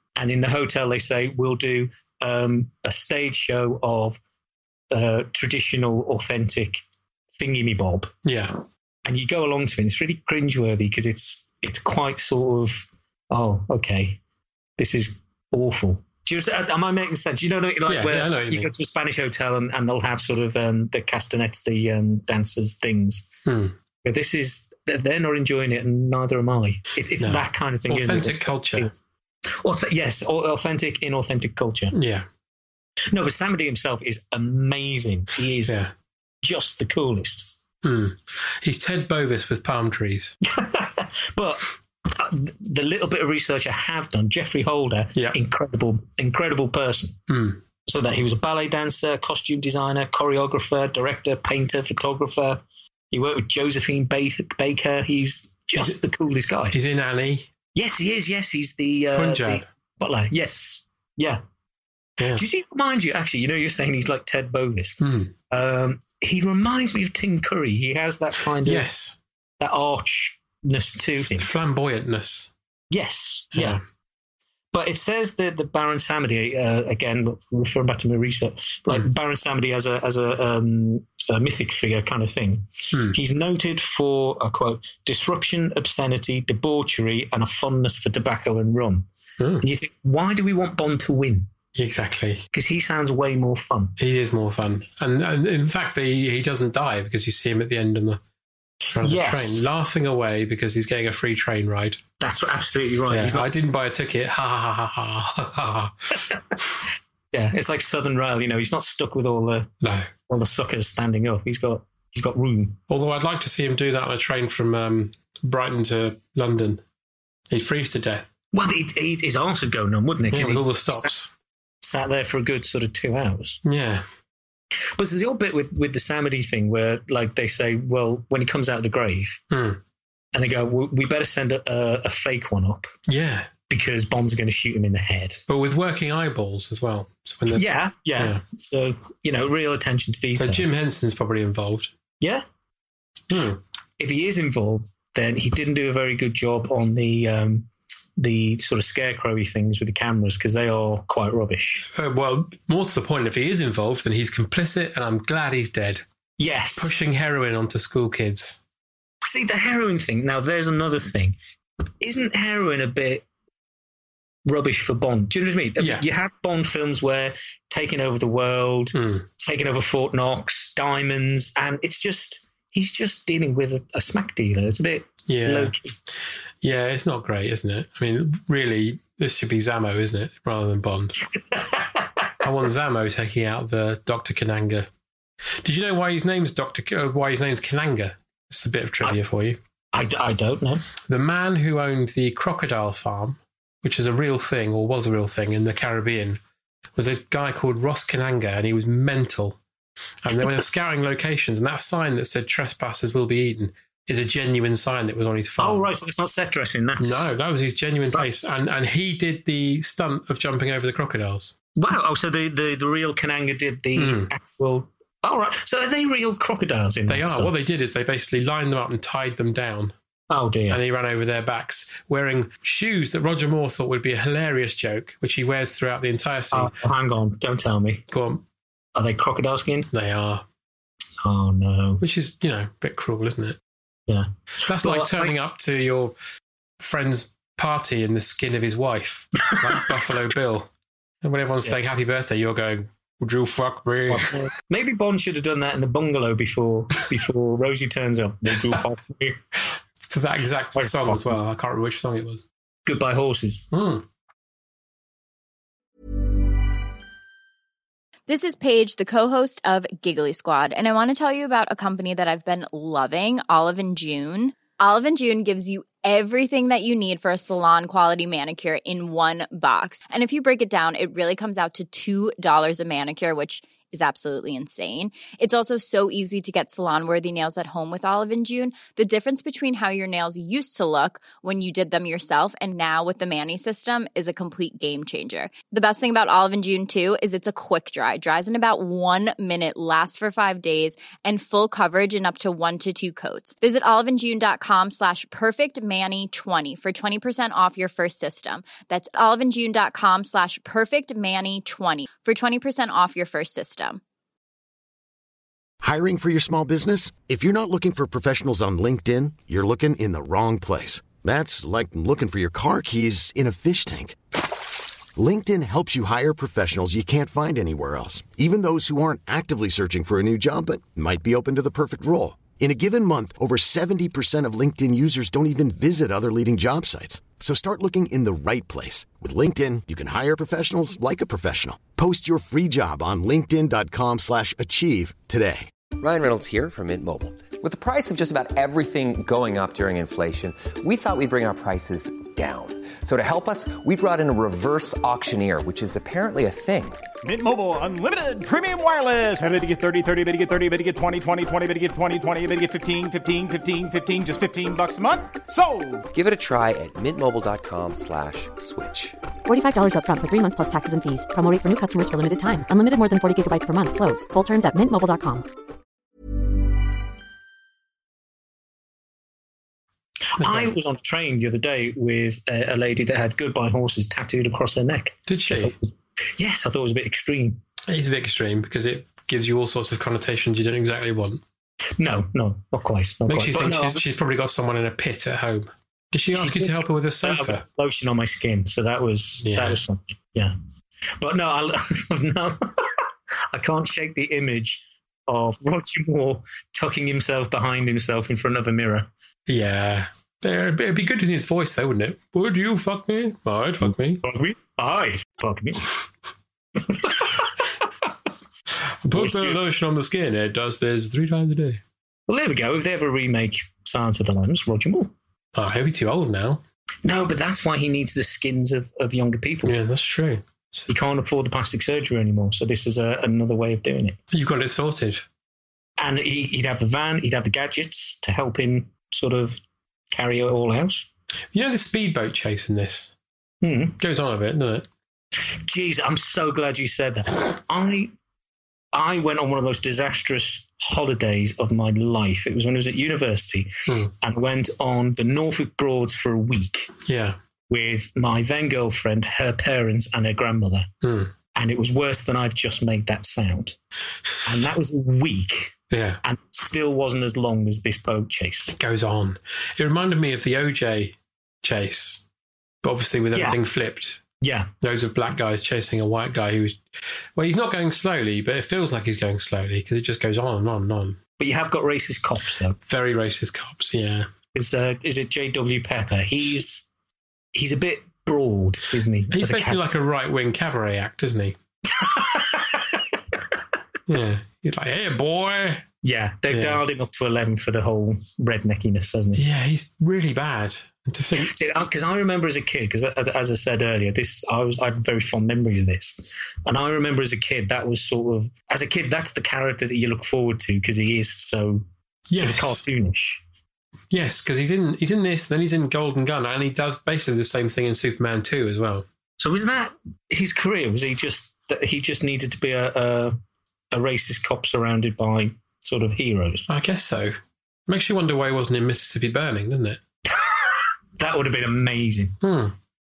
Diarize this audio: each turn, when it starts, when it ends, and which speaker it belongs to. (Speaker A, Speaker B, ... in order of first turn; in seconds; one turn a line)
Speaker A: 0.1-4.2
Speaker A: 4.9-6.8
Speaker A: 7.4-8.1
Speaker B: 8.2-8.5
Speaker A: 9.1-14.2
Speaker A: 14.8-23.4
Speaker B: 17.9-18.7
Speaker B: 23.5-23.7
Speaker A: 24.0-28.9
Speaker B: 27.2-28.9
Speaker A: 29.6-32.0
Speaker B: 31.9-32.3
Speaker A: 33.1-35.8
Speaker B: 35.6-35.9
Speaker A: 36.4-37.5
Speaker B: 37.8-40.3
Speaker A: 40.5-47.2
Speaker B: 47.3-47.6
Speaker A: 47.9-56.8
Speaker B: 56.7-57.5
Speaker A: 57.8-61.4
Speaker B: 59.1-59.6
Speaker A: 62.3-68.9
Speaker B: 65.0-65.3
Speaker B: 68.6-69.2
Speaker A: 69.6-71.5
Speaker B: 71.2-72.5
Speaker A: 72.9-73.8
Speaker B: 73.5-73.8
Speaker A: 74.7-89.1
Speaker B: 82.9-83.2
Speaker B: 89.4-89.6
Speaker A: 89.6-91.5
Speaker B: 91.8-92.4
Speaker A: 92.5-94.0
Speaker B: 94.0-98.2
Speaker B: 98.9-102.0
Speaker A: 99.0-99.6
Speaker A: 102.2-103.6
Speaker B: 103.1-106.4
Speaker A: 107.3-109.7
Speaker B: 109.8-110.1
Speaker A: 110.3-112.8
Speaker B: 112.9-116.8
Speaker B: 117.5-118.3
Speaker A: 118.5-121.1
Speaker B: 120.3-121.3
Speaker A: 121.8-123.6
Speaker B: 123.6-124.0
Speaker A: 124.8-129.4
Speaker B: 129.5-129.8
Speaker A: 130.3-132.9
Speaker B: 133.1-133.5
Speaker A: 133.7-135.4
Speaker B: 135.5-138.4
Speaker A: 137.5-140.7
Speaker B: 140.4-141.9
Speaker B: 143.3-143.6
Speaker A: 144.0-151.9
Speaker B: 151.9-156.0
Speaker A: 156.4-156.9
Speaker B: 156.8-158.6
Speaker A: 159.2-161.3
Speaker A: 162.0-163.2
Speaker A: 164.5-175.9
Speaker B: 165.8-166.0
Speaker B: 168.9-169.2
Speaker B: 175.3-175.7
Speaker B: 176.6-181.2
Speaker A: 181.5-182.2
Speaker B: 182.4-184.9
Speaker B: 185.6-189.6
Speaker A: 189.9-190.8
Speaker B: 191.1-196.4
Speaker B: 197.0-199.6
Speaker B: 200.2-205.9
Speaker A: 205.6-207.3
Speaker B: 207.0-211.5
Speaker A: 211.8-217.5
Speaker B: 214.0-214.3
Speaker B: 217.1-219.9
Speaker A: 220.3-220.8
Speaker B: 220.7-226.8
Speaker A: 226.5-228.0
Speaker B: 228.1-228.4
Speaker A: 228.9-229.9
Speaker B: 229.9-230.4
Speaker A: 231.2-232.0
Speaker B: 232.0-233.6
Speaker A: 234.1-235.3
Speaker B: 234.7-236.1
Speaker B: 236.8-240.7
Speaker A: 239.5-239.8
Speaker B: 241.2-244.4
Speaker A: 244.1-249.4
Speaker B: 250.0-252.4
Speaker A: 250.8-251.4
Speaker A: 252.9-253.7
Speaker B: 253.7-254.1
Speaker C: 258.3-304.0
Speaker D: 305.8-314.2
Speaker D: 315.1-335.7
Speaker E: 336.0-347.0
Speaker F: 347.2-356.1
Speaker E: 356.1-359.2
Speaker G: 359.5-365.5
Speaker A: 370.3-377.6
Speaker B: 370.4-370.7
Speaker B: 375.3-375.7
Speaker B: 377.9-381.4
Speaker A: 382.0-384.0
Speaker B: 383.3-387.6
Speaker A: 386.3-390.6
Speaker B: 389.4-389.8
Speaker A: 391.2-392.9
Speaker A: 393.5-399.1
Speaker B: 399.5-404.2
Speaker A: 404.2-405.9
Speaker A: 406.9-407.6
Speaker B: 409.0-411.8
Speaker A: 409.1-409.6
Speaker A: 412.3-415.1
Speaker B: 415.6-416.6
Speaker A: 417.1-419.7
Speaker B: 419.6-420.9
Speaker A: 420.9-424.2
Speaker B: 424.3-425.2
Speaker A: 426.0-429.6
Speaker A: 430.1-431.1
Speaker B: 431.5-433.1
Speaker A: 433.6-434.0
Speaker B: 434.0-434.9
Speaker A: 435.5-438.1
Speaker A: 438.9-446.9
Speaker B: 447.1-447.4
Speaker A: 447.7-450.9
Speaker B: 451.0-451.3
Speaker A: 451.6-453.8
Speaker A: 454.4-458.7
Speaker B: 455.9-456.2
Speaker B: 458.7-462.2
Speaker B: 462.8-464.2
Speaker A: 463.3-463.6
Speaker A: 464.4-464.7
Speaker B: 464.8-466.8
Speaker B: 467.4-471.2
Speaker A: 471.4-472.8
Speaker B: 472.8-474.3
Speaker A: 474.5-476.9
Speaker A: 477.6-479.8
Speaker B: 479.3-481.6
Speaker A: 482.0-483.0
Speaker B: 484.1-485.9
Speaker A: 486.0-489.4
Speaker B: 486.5-486.8
Speaker B: 489.4-491.5
Speaker A: 491.4-503.4
Speaker B: 502.3-502.8
Speaker B: 504.1-509.1
Speaker A: 509.4-513.4
Speaker A: 513.9-516.6
Speaker B: 516.7-517.4
Speaker B: 517.9-520.0
Speaker A: 520.3-522.4
Speaker B: 522.4-522.8